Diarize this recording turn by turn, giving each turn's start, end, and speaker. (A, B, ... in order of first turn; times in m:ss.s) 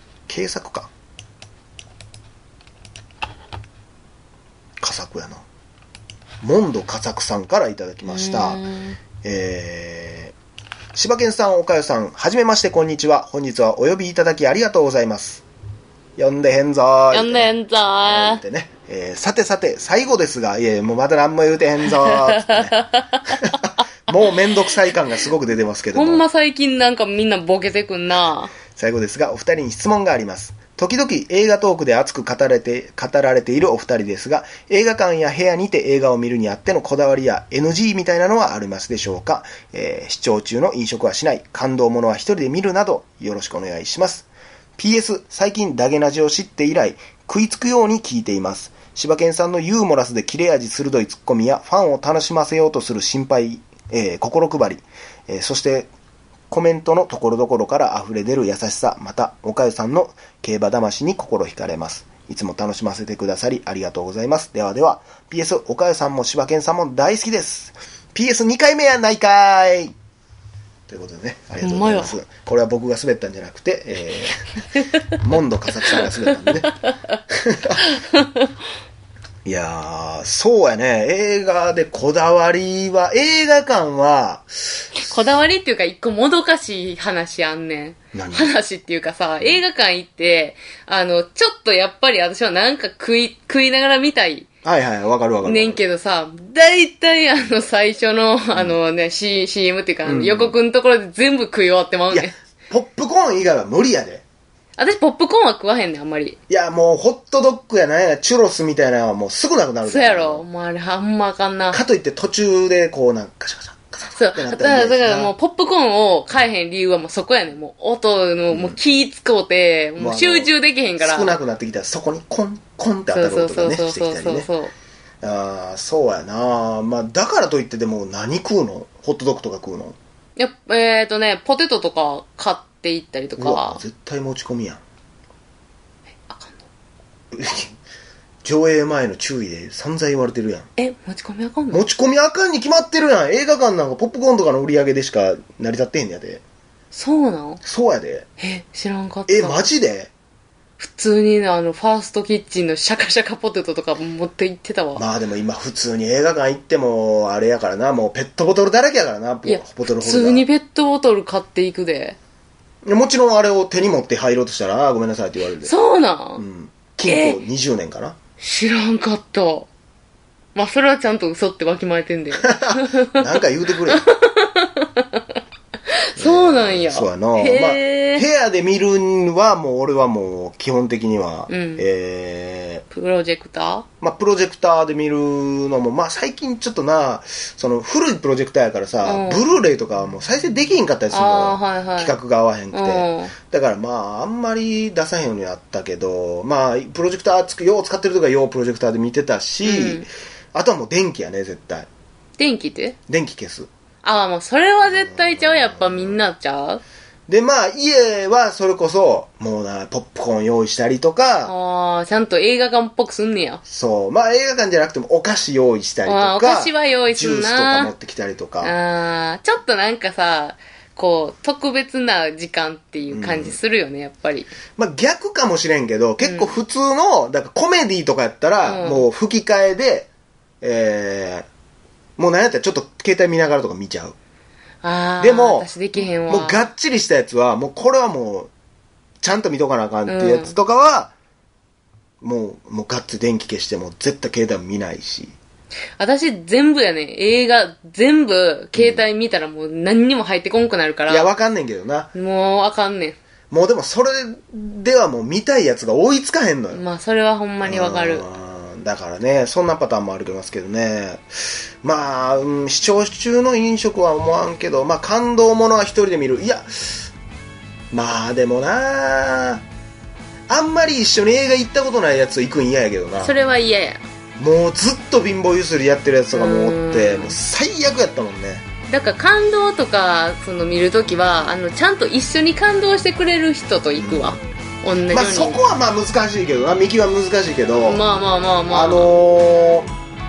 0:00.3-0:00.9 A
0:04.8-0:05.4 A
0:06.4-0:08.6 A
0:08.0-0:09.0 B
0:09.2-0:10.4 A
0:10.9-0:15.4 A
0:16.2-0:22.8 A
0:17.1-0:18.4 B
0:22.0-0:23.4 B
0:23.3-0:26.2 A
0:25.9-0:28.5 B
0:28.7-0:55.9 A
0:56.5-1:09.9 A
1:10.9-1:14.5 A
1:11.6-1:12.2 B
1:15.2-1:16.7 A
1:17.3-1:17.8 A
1:18.0-1:18.2 B
1:19.4-1:24.9 A
1:25.0-1:34.5 B
1:28.1-1:28.5 A
1:34.6-1:35.9 A
1:35.4-1:42.3 B
1:40.0-1:40.6 A
1:42.1-1:44.2 A
1:44.8-1:46.4 B
1:46.5-1:50.4 A
1:49.8-1:51.8 B
1:51.7-1:55.3 A
1:54.2-2:01.4 B
1:58.5-1:58.8 A
2:00.0-2:04.5 A
2:03.1-2:04.7 B
2:05.2-2:10.0 A
2:10.4-2:13.8 B
2:13.4-2:14.8 A
2:16.3-2:16.6 B
2:17.3-2:17.7 A
2:18.4-2:20.7 A
2:20.8-2:21.8 B
2:21.7-2:26.4 A
2:26.9-2:27.6 B
2:27.6-2:28.3 A
2:28.4-2:29.7 B
2:29.3-2:30.1 A
2:30.8-2:35.0 B
2:35.0-2:40.5 A
2:39.5-2:42.2 B
2:42.8-2:45.7 A
2:45.6-2:46.4 B
2:46.4-2:48.2 A
2:47.1-2:47.4 B
2:48.4-2:49.7 B
2:50.6-2:55.2 B
2:52.4-2:54.1 A
2:56.2-2:58.3 B
2:56.2-3:02.8 A
3:01.5-3:01.8 B
3:02.9-3:03.9 B
3:04.0-3:21.9 A
3:09.0-3:09.4 B
3:11.1-3:12.2 B
3:12.7-3:13.3 B
3:19.6-3:20.0 B
3:22.4-3:23.0 B
3:23.1-3:23.7 A
3:24.0-3:26.8 B
3:24.8-3:26.2 A
3:27.3-3:31.5 A
3:31.5-3:33.6 B
3:33.7-3:38.8 A
3:36.1-3:37.9 B
3:38.6-3:44.5 B
3:43.1-3:43.6 A
3:44.8-3:50.1 A
3:46.2-3:46.6 B
3:48.6-3:49.1 B
3:50.6-3:51.5 A
3:52.2-3:54.2 A
3:54.8-3:56.7 B
3:55.2-3:58.5 A
3:59.2-4:01.2 A
4:00.1-4:00.6 B
4:02.2-4:05.4 A
4:06.0-4:11.3 B
4:08.8-4:09.0 A
4:11.1-4:12.1 A
4:12.1-4:13.2 B
4:13.5-4:16.8 A
4:16.7-4:18.3 B
4:17.6-4:27.1 A
4:27.9-4:29.6 A
4:30.5-4:33.3 A
4:33.2-4:34.0 B
4:34.4-4:38.6 A
4:36.3-4:37.4 B
4:38.9-4:45.6 B
4:44.0-4:44.4 A
4:45.1-4:48.0 A
4:47.8-4:49.2 B
4:48.7-4:49.9 A